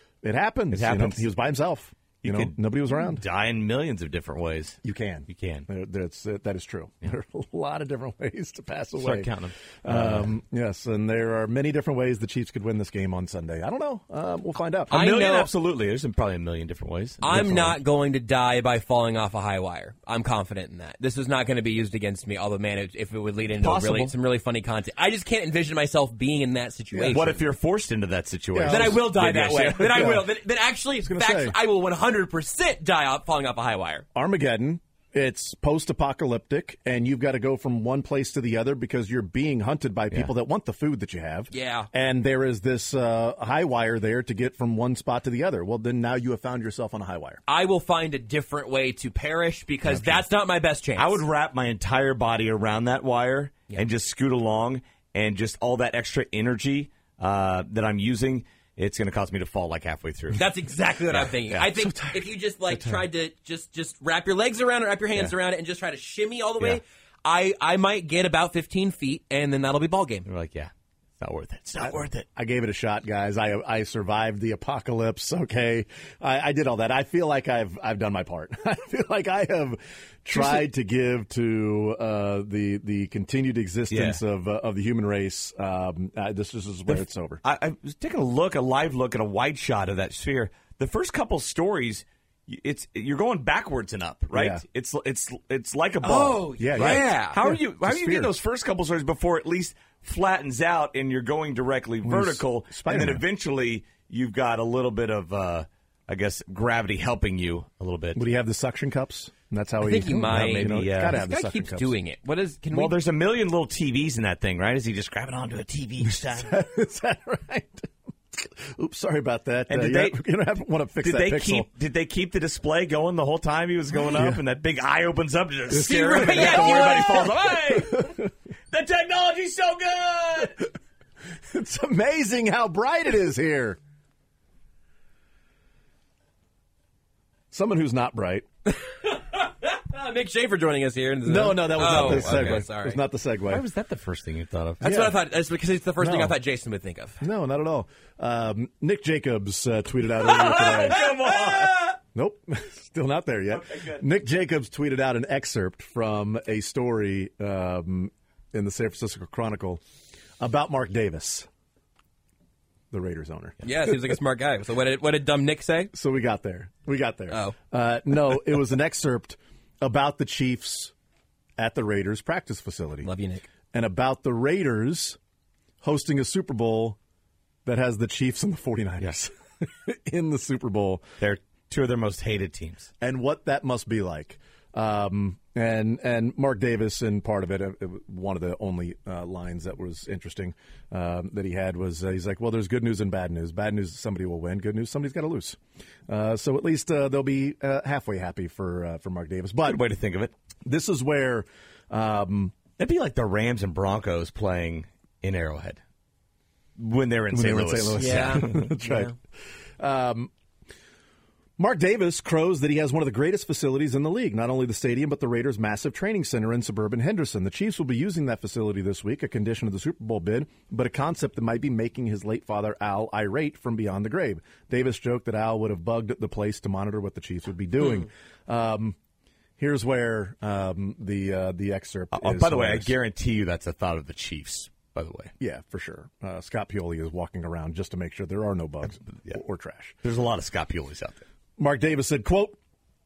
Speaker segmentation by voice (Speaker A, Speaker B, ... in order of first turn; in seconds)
Speaker A: 0.2-3.2, 4.8-9.3, 9.8-15.1, 26.9-27.4, 28.5-29.1, 29.8-30.2, 31.0-31.6, 34.1-47.4, 61.7-62.2, 71.8-87.4, 94.3-94.6, 96.5-98.3, 102.0-103.2, 108.1-111.9, 116.0-121.7, 124.0-124.4, 125.7-128.3, 131.5-133.8, 137.5-138.4, 141.2-143.6, 144.8-145.2, 146.0-146.4, 147.2-151.3, 152.1-159.8, 160.4-161.5, 162.9-163.6, 165.9-170.9, 171.6-173.1, 173.7-175.2, 175.8-177.0, 177.6-181.0, 183.0-199.8, 200.6-202.6, 207.3-209.1, 209.8-210.3, 211.6-228.9, 229.6-232.9, 235.4-239.9, 241.6-242.6
Speaker B: 0.7-1.2, 2.2-4.8, 5.3-5.7, 9.0-10.3, 14.9-17.7, 23.6-24.1, 27.1-30.2, 51.0-60.4, 61.1-61.9, 70.2-72.2, 80.3-80.7, 83.9-84.2, 86.9-108.2, 110.3-111.2, 112.7-116.5, 119.7-120.2, 121.0-130.6, 141.8-142.7, 143.5-144.9, 150.2-152.0, 153.5-154.0, 181.2-182.9, 199.6-200.3, 202.8-205.8, 206.8-208.7, 232.1-235.3, 240.0-241.2
Speaker C: 14.9-15.5, 17.2-27.4, 28.7-34.0, 41.5-41.9, 47.5-51.2, 60.3-70.3, 96.0-97.4, 109.8-113.0, 125.8-127.3, 138.7-143.0, 144.8-147.2, 163.6-165.9, 167.3-167.6, 173.0-173.4, 208.0-209.1